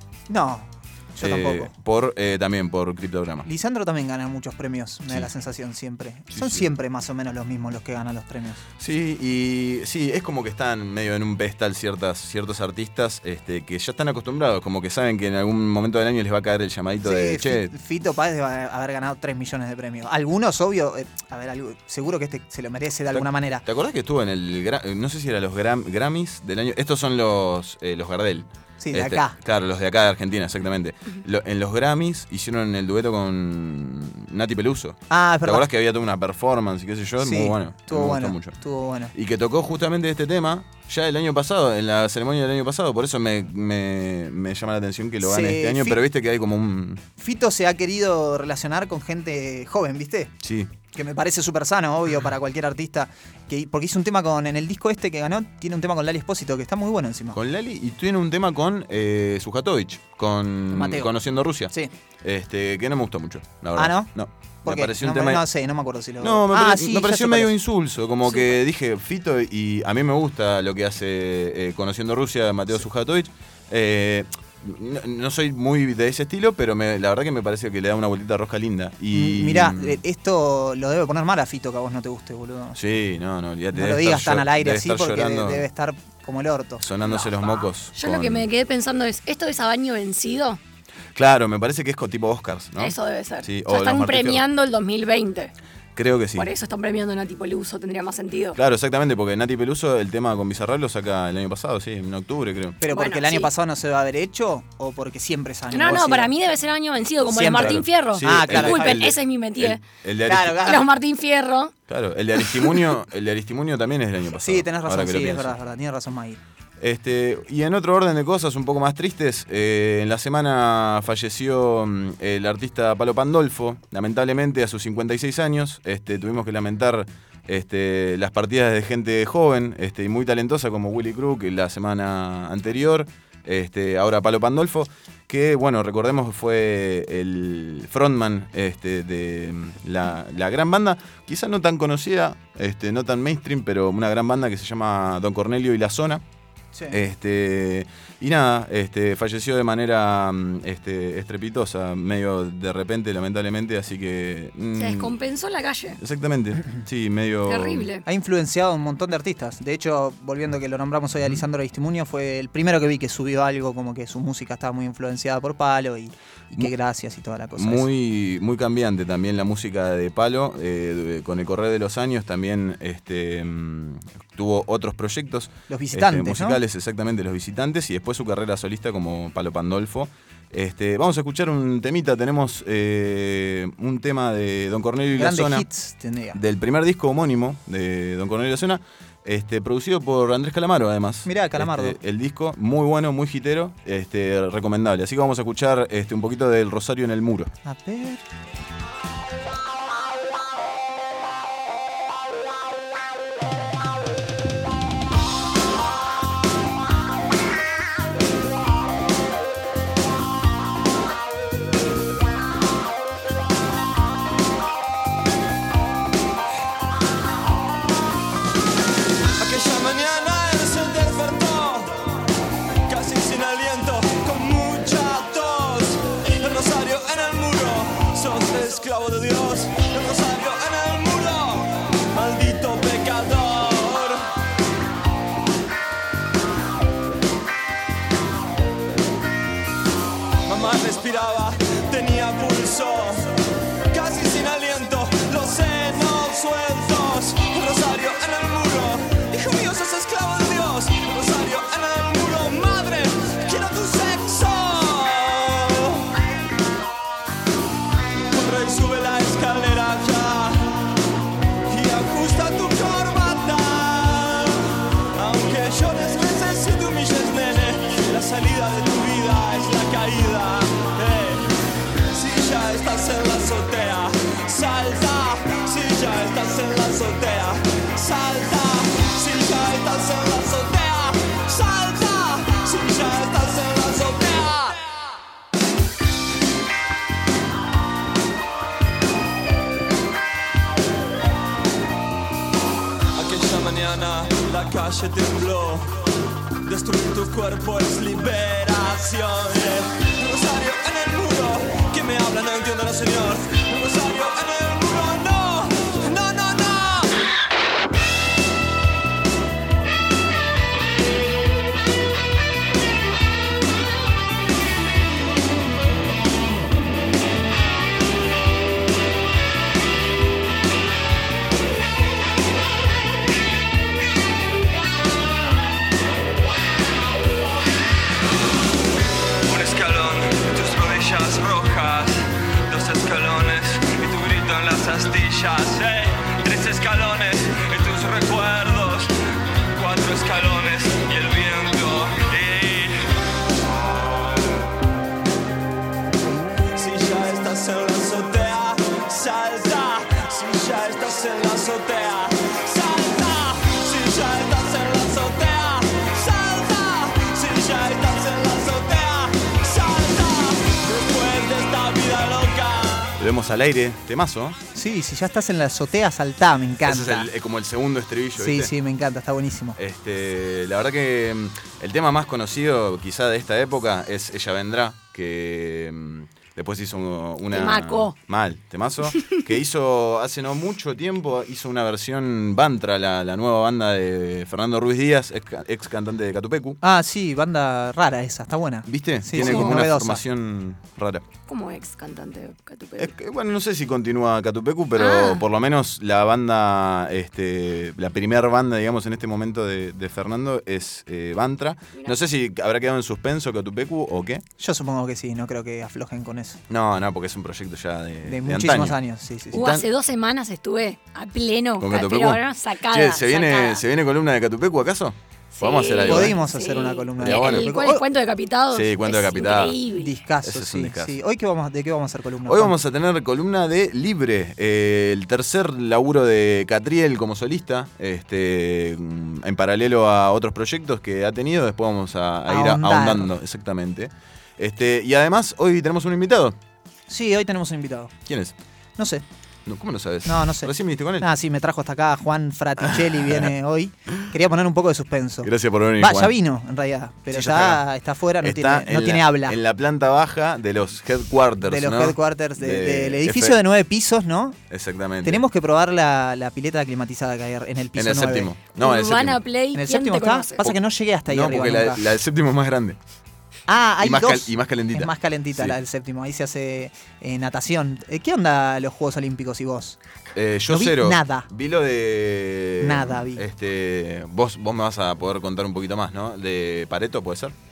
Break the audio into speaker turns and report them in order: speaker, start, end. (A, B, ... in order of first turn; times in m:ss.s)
0:00.3-0:01.7 A
0:01.2-0:03.5 B
0:03.5-0:08.6 A
0:06.3-0:06.7 B
0:08.8-0:17.7 B
0:17.0-0:23.6 A
0:23.1-0:38.6 B
0:28.8-0:29.4 A
0:35.1-0:35.6 A
0:37.2-0:39.1 A
0:39.1-0:47.0 B
0:45.2-0:46.0 A
0:47.2-0:50.3 A
0:50.4-0:50.7 B
0:50.9-0:57.4 A
0:57.3-1:05.5 B
1:00.7-1:01.1 A
1:03.8-1:04.1 A
1:04.6-1:07.5 A
1:06.2-1:20.0 B
1:19.1-1:22.8 A
1:22.8-1:25.7 B
1:23.7-1:26.9 A
1:26.8-1:28.4 B
1:27.9-1:30.6 C
1:31.2-1:34.4 B
1:32.8-1:35.5 C
1:36.0-1:36.5 B
1:36.4-1:38.6 C
1:38.6-1:42.8 B
1:42.8-1:46.3 A
1:42.9-1:43.5 C
1:45.7-1:49.9 C
1:47.3-1:49.0 A
1:47.6-1:50.7 B
1:50.3-1:50.8 A
1:50.6-1:51.7 C
1:51.9-1:55.6 B
1:52.5-1:52.8 C
1:54.4-1:56.4 A
1:56.8-2:26.2 B
2:26.9-2:35.2 B
2:34.8-2:36.0 C
2:36.0-2:37.9 B
2:37.5-2:38.0 C
2:38.1-2:47.9 A
2:47.6-3:05.7 B
2:55.7-2:56.6 A
3:05.2-3:06.4 A
3:06.3-3:17.5 B
3:11.2-3:12.0 A
3:17.6-3:18.2 A
3:39.4-3:42.1 D
3:42.9-3:54.2 D
4:00.5-4:03.3 D
4:03.9-4:16.1 D
4:18.3-4:20.9 D
4:21.7-4:31.5 D
4:32.1-4:45.0 D
4:53.1-4:56.0 D
4:56.6-5:07.1 D
5:29.5-5:39.1 D
5:39.7-5:43.0 D
5:46.7-6:03.1 D
6:03.2-6:04.6 B
6:04.7-6:07.3 A
6:06.8-6:08.7 B
6:08.4-6:09.8 A
6:09.8-6:26.8 B
6:17.5-6:18.1 C
6:26.8-6:30.2 A
6:28.9-6:31.2 B
6:29.4-6:29.8 C
6:31.5-6:33.1 C
6:33.0-6:44.4 B
6:35.0-6:35.4 C
6:44.6-6:46.6 A
6:46.7-6:49.0 B
6:48.2-6:49.6 A
6:49.5-6:49.9 B
6:49.5-6:53.8 C
6:51.8-6:56.4 B
6:55.5-7:00.2 C
6:56.1-6:58.0 A
6:57.2-6:57.7 B
6:58.7-6:59.8 B
7:00.0-7:02.8 A
7:00.4-7:01.2 B
7:02.5-7:16.6 B
7:12.5-7:13.3 A
7:17.1-7:18.1 A
7:18.3-7:18.6 B
7:19.0-7:19.2 A
7:19.7-7:21.3 B
7:20.3-7:29.6 A
7:23.0-7:23.5 B
7:25.4-7:26.4 B
7:27.3-7:27.8 B
7:28.4-7:33.6 B
7:31.7-7:34.6 A
7:34.7-7:35.4 B
7:35.2-7:38.5 A
7:38.0-7:39.4 B
7:38.8-7:40.6 C
7:39.7-7:42.0 A
7:40.6-7:43.0 B
7:43.7-7:50.0 A
7:44.0-7:45.8 B
7:50.3-7:57.5 B
7:50.7-7:51.5 A
7:52.8-7:53.4 A